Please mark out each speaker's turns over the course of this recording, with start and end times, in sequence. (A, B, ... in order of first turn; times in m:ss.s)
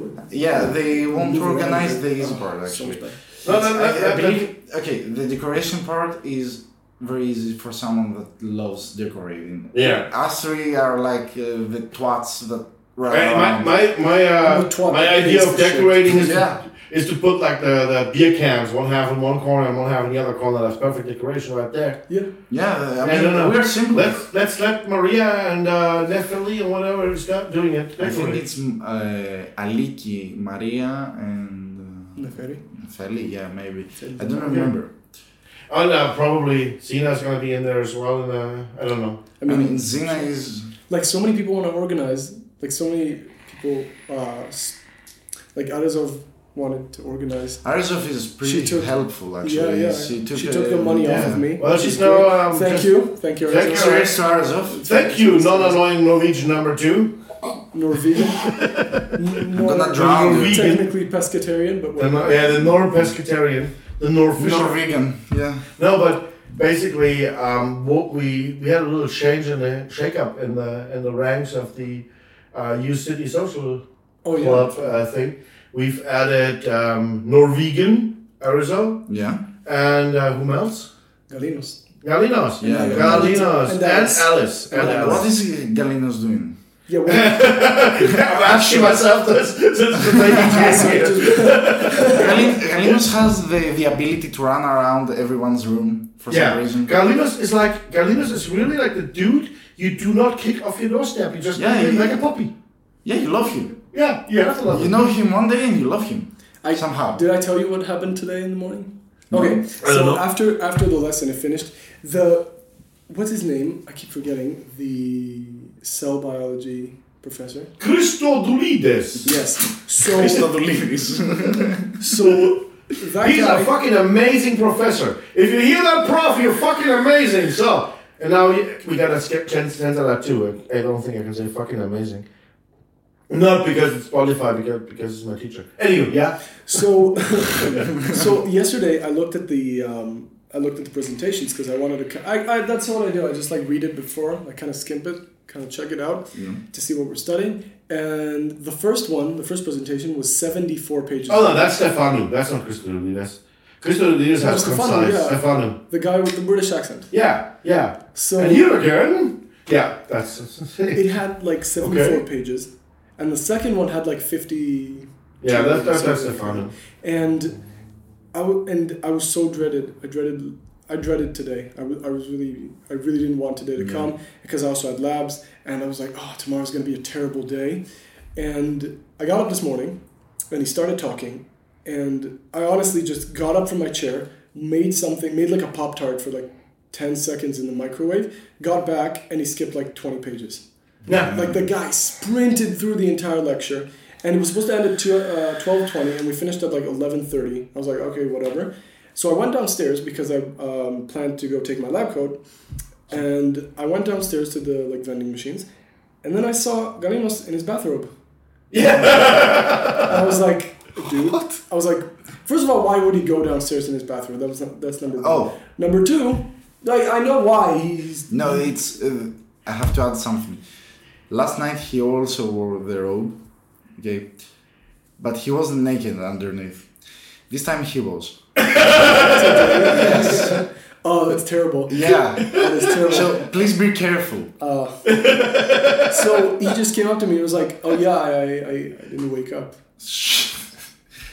0:00.3-0:13.7 A
0:01.1-0:03.2 B
0:03.4-0:04.5 C
0:09.7-0:10.0 C
0:13.1-0:22.0 C
0:14.4-0:16.1 B
0:16.1-0:16.6 A
0:22.5-0:24.2 A
0:23.0-0:28.4 C
0:28.0-0:34.9 A
0:32.2-0:32.6 B
0:34.0-0:34.7 B
0:35.7-0:39.2 C
0:39.4-0:40.3 B
0:39.5-0:40.7 A
0:40.9-0:44.8 B
0:45.5-0:47.6 B
0:47.6-0:51.5 A
0:48.4-0:54.1 B
0:51.1-0:54.1 C
0:53.5-0:54.8 A
0:54.6-0:55.8 B
0:54.8-0:57.2 C
0:57.7-0:58.5 B
0:58.4-0:59.1 C
0:59.1-1:02.7 B
0:59.5-1:00.8 A
1:00.0-1:00.9 C
1:02.0-1:04.8 C
1:04.4-1:05.7 A
1:05.8-1:19.0 C
1:14.2-1:15.0 B
1:19.1-1:19.4 A
1:19.6-1:20.9 C
1:21.3-1:21.8 B
1:22.0-1:25.3 C
1:22.6-1:23.4 A
1:22.6-1:25.3 B
1:24.7-1:26.6 A
1:26.9-1:27.5 B
1:27.1-1:33.0 C
1:30.1-1:30.8 A
1:30.5-1:32.5 B
1:32.0-1:36.9 A
1:36.3-1:42.5 C
1:41.6-1:42.2 A
1:43.0-1:43.8 A
1:43.9-1:44.9 C
1:44.7-1:47.2 A
1:46.6-1:52.5 B
1:49.3-1:49.6 A
1:49.8-1:50.2 C
1:53.1-1:57.7 B
1:57.8-1:59.3 C
1:59.2-2:00.5 B
2:00.0-2:01.9 A
2:02.0-2:03.7 B
2:03.2-2:12.2 C
2:13.3-2:16.4 C
2:16.6-2:31.6 B
2:26.3-2:26.6 A
2:31.3-2:35.8 C
2:34.4-2:37.1 B
2:37.1-2:41.0 C
2:38.1-2:38.7 B
2:40.9-2:47.6 B
2:41.8-2:42.2 C
2:45.4-2:46.7 C
2:48.3-2:57.8 B
2:53.8-2:54.1 A
2:58.4-3:00.0 B
3:00.5-3:10.6 B
3:11.1-3:11.3 C
3:11.2-3:11.5 A
3:11.2-3:22.4 B
3:23.1-3:25.7 B
3:26.2-3:28.1 B
3:28.7-3:30.3 C
3:30.0-3:38.3 B
3:35.2-3:35.5 A
3:38.3-3:40.6 A
3:41.3-3:43.4 A
3:44.0-3:44.3 A
3:45.2-3:46.9 A
3:47.5-3:48.4 A
3:48.6-3:50.0 C
3:49.2-3:53.4 B
3:49.8-3:50.6 A
3:51.9-3:54.5 A
3:54.6-3:55.1 B
3:55.0-3:56.5 C
3:56.1-3:59.8 B
4:00.0-4:00.7 A